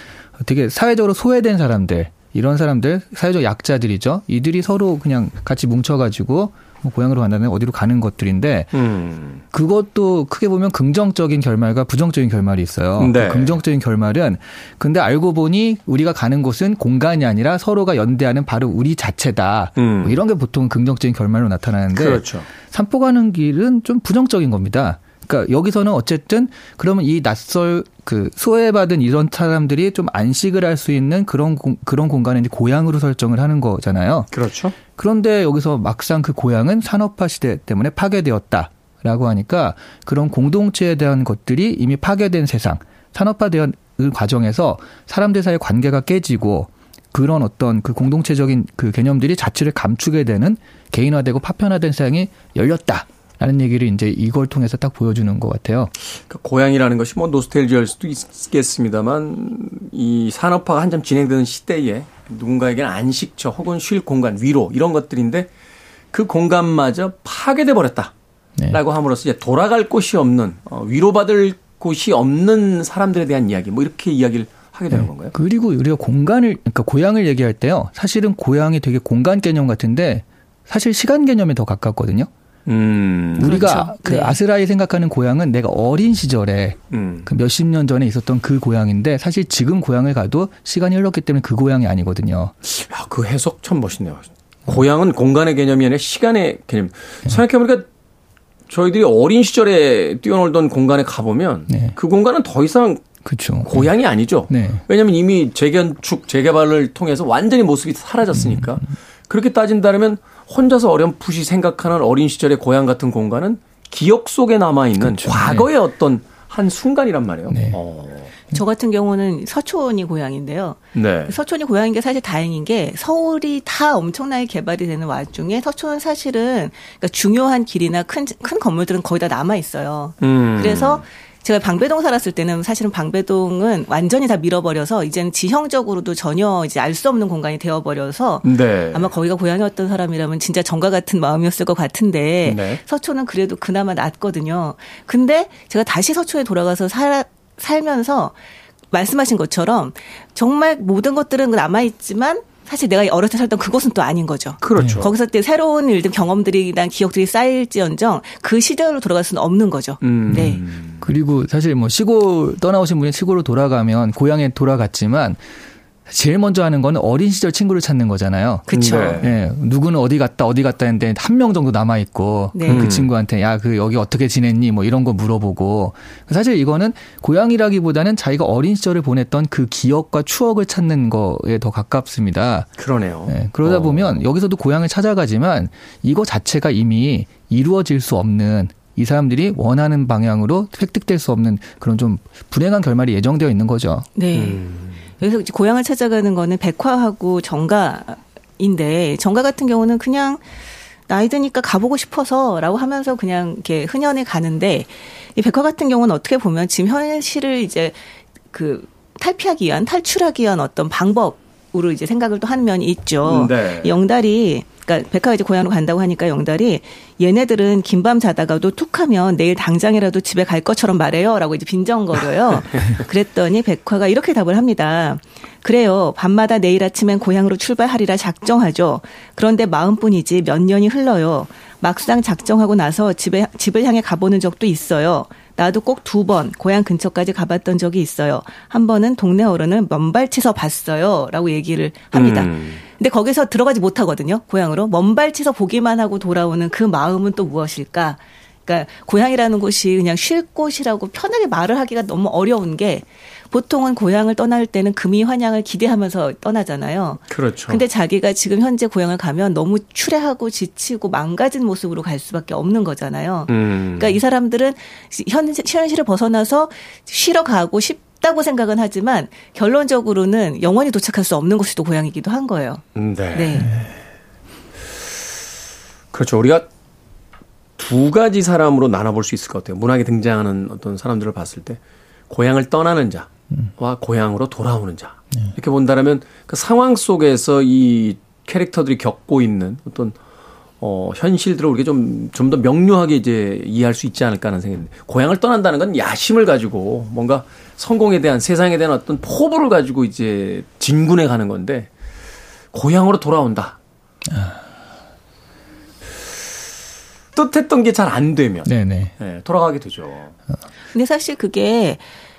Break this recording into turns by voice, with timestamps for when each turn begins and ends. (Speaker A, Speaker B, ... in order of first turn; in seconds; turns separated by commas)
Speaker A: 0.4-8.7, Speaker B: 8.7-9.4, Speaker A: 9.5-34.3, Speaker B: 13.0-13.6, Speaker B: 19.8-20.2, Speaker B: 21.9-22.5, Speaker B: 34.3-34.8, Speaker A: 35.0-55.9, Speaker B: 56.1-65.5, Speaker B: 66.1-68.1, Speaker B: 68.7-75.3, Speaker A: 74.9-82.3, Speaker B: 82.7-83.8, Speaker A: 83.4-92.5, Speaker C: 83.4-84.4, Speaker B: 86.9-87.3, Speaker B: 92.7-97.8, Speaker B: 98.7-103.0, Speaker A: 101.7-102.0, Speaker A: 103.2-103.9, Speaker B: 103.6-118.3, Speaker A: 104.5-104.8, Speaker A: 108.3-108.7, Speaker A: 115.0-115.7, Speaker A: 117.5-117.8, Speaker C: 118.5-148.3, Speaker B: 120.9-121.4, Speaker B: 130.2-131.0, Speaker B: 138.4-139.1, Speaker B: 142.4-142.8, Speaker C: 148.9-160.6, Speaker B: 154.6-155.1, Speaker B: 160.0-161.0, Speaker A: 160.3-165.4, Speaker A: 166.1-168.7, Speaker C: 168.7-169.2, Speaker B: 168.7-169.3, Speaker A: 169.2-182.7, Speaker C: 172.5-172.8, Speaker B: 172.7-173.1, Speaker B: 182.8-184.2, Speaker A: 183.3-194.1, Speaker C: 194.2-194.6, Speaker B: 194.3-195.0, Speaker C: 195.2-200.4, Speaker C: 201.1-273.7, Speaker B: 213.2-213.9, Speaker B: 242.1-242.8, Speaker B: 257.3-257.8, Speaker B: 263.5-264.2, Speaker B: 272.9-273.8, Speaker B: 276.1-276.7, Speaker B: 277.8-281.8, Speaker B: 282.3-290.2, Speaker B: 290.8-301.9, Speaker B: 302.7-303.8, Speaker A: 304.3-304.6, Speaker B: 307.3-310.3, Speaker A: 308.6-309.1, Speaker C: 310.9-312.0